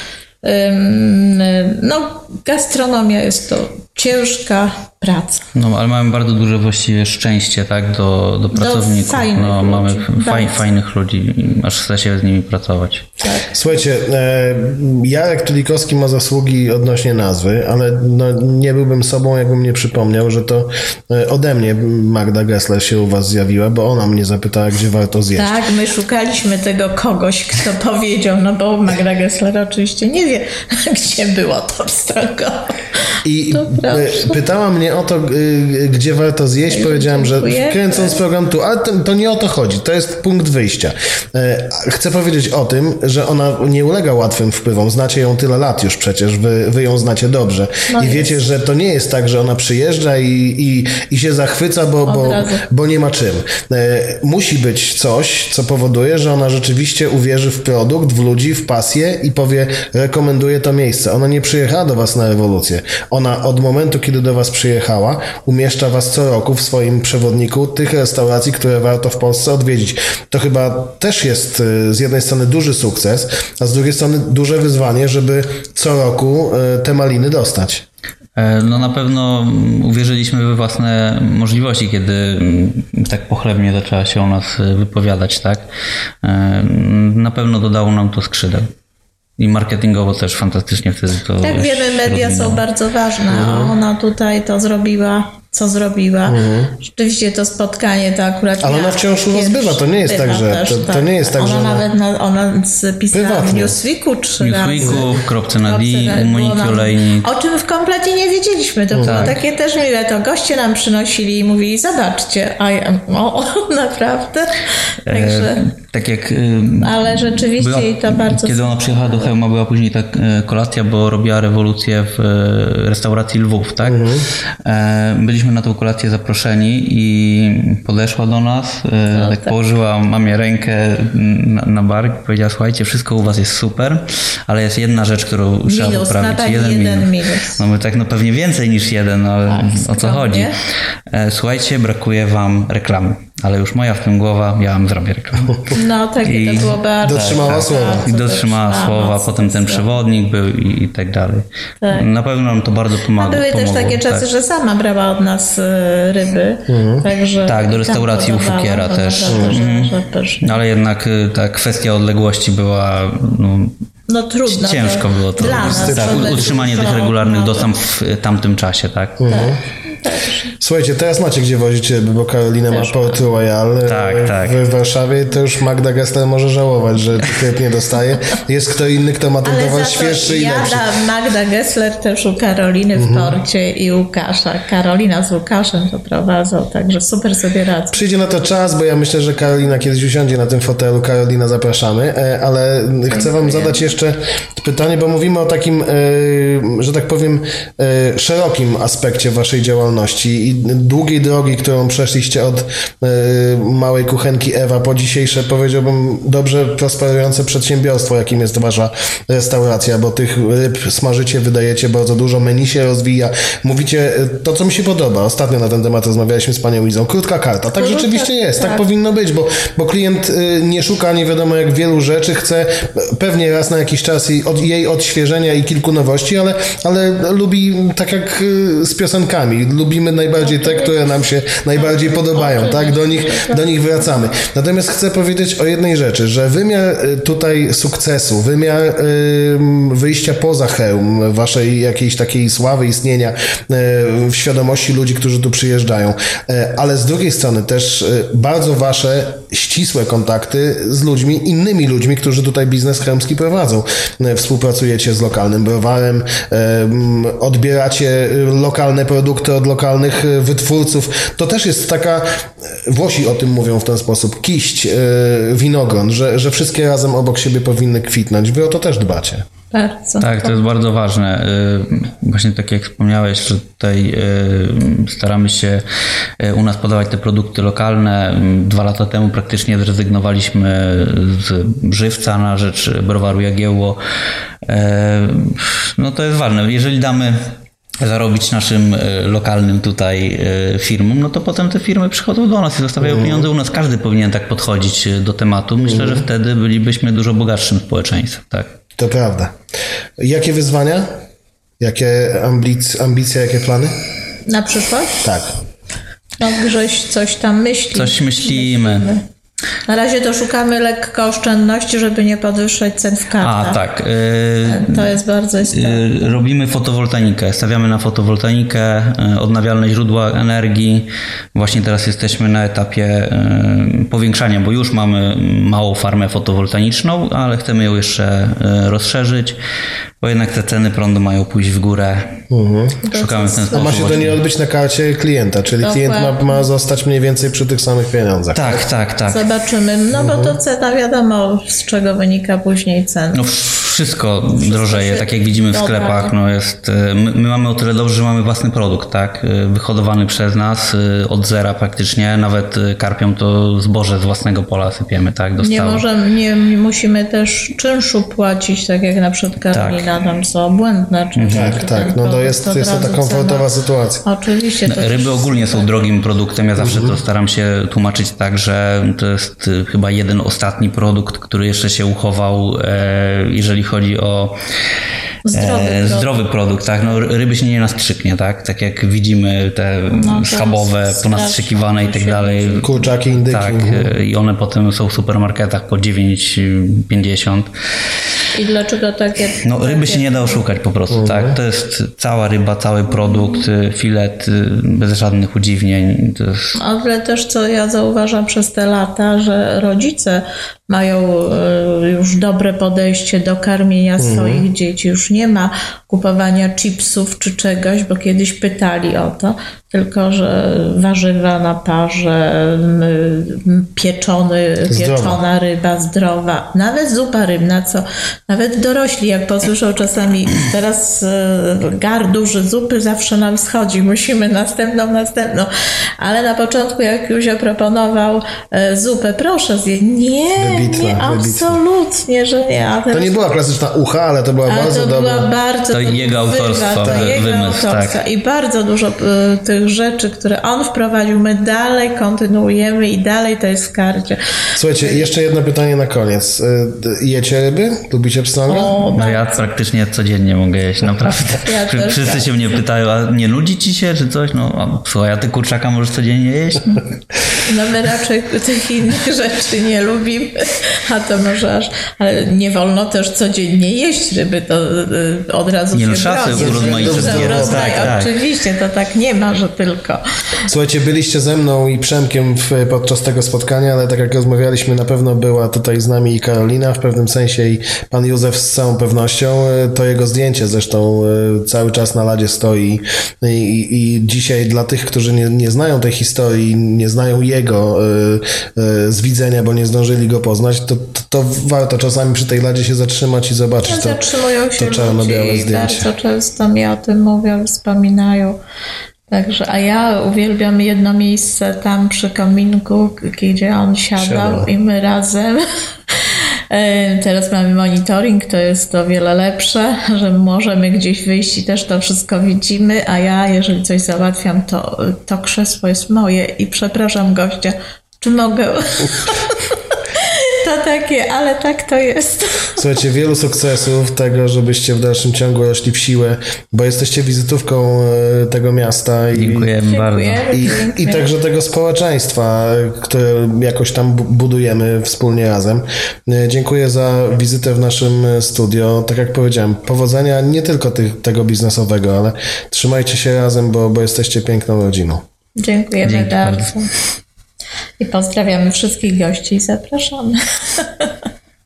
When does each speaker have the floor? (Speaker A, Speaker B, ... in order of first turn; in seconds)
Speaker A: 0.4-5.5, 8.5-10.6, 13.2-13.6, 25.4-34.4, 36.7-38.2, 47.9-48.4, 52.1-52.6, 91.4-105.1, 105.6-115.7, 116.8-119.3, 129.1-129.6, 135.7-137.6, 139.5-140.6, 145.7-149.9, 151.8-152.1, 153.2-160.6, 164.1-167.7, 169.3-170.6, 172.7-173.2, 179.4-188.0, 217.8-218.8, 230.4-230.9, 231.8-233.8, 269.7-270.6, 304.5-305.2, 306.4-309.2, 309.9-313.8, 314.6-316.4, 333.0-334.2, 335.8-336.6, 339.3-343.4, 344.6-346.3, 355.6-363.7, 364.2-365.9, 375.4-376.3, 380.1-382.9, 388.5-390.6, 396.8-433.4, 434.7-444.4, 444.9-445.3, 448.7-449.7, 451.6-452.8, 457.6-470.2, 493.9-498.6, 499.3-522.8, 529.9-531.3, 545.6-546.9, 548.0-551.1
Speaker B: 5.5-13.1, 78.4-85.7, 86.2-88.7, 89.4-92.6, 104.4-107.3, 109.0-109.3, 115.1-124.1, 124.6-140.5, 141.1-154.2, 157.4-163.8, 164.5-169.2, 173.8-174.6, 270.2-275.9, 276.4-284.0, 284.6-298.8, 307.9-309.1, 313.4-315.2, 315.7-329.6, 330.2-332.4, 333.1-334.4, 338.6-339.4, 343.3-356.1, 359.7-360.1, 361.4-361.8, 364.9-374.6, 375.5-387.7, 389.6-396.8, 435.9-438.2, 449.1-457.0, 465.9-468.3, 529.3-530.6, 546.0-546.8
Speaker C: 13.5-25.5, 33.2-77.8, 93.3-93.7, 96.3-96.8, 98.6-101.8, 103.1-103.8, 108.9-109.3, 123.8-124.3, 147.0-148.1, 156.7-157.1, 159.3-159.6, 165.4-166.6, 169.2-169.6, 170.6-180.8, 182.9-183.4, 187.9-269.5, 293.0-293.5, 295.8-296.2, 299.0-299.6, 300.2-301.1, 301.8-304.0, 305.2-305.6, 332.5-333.0, 333.7-338.8, 340.1-340.6, 361.5-364.2, 366.8-367.2, 382.8-384.1, 391.1-391.6, 404.2-404.6, 414.9-415.4, 430.6-431.8, 433.1-435.5, 437.0-437.4, 444.8-449.0, 466.5-468.1, 470.7-494.2, 494.8-496.1, 504.2-504.7, 522.8-529.7, 530.5-545.2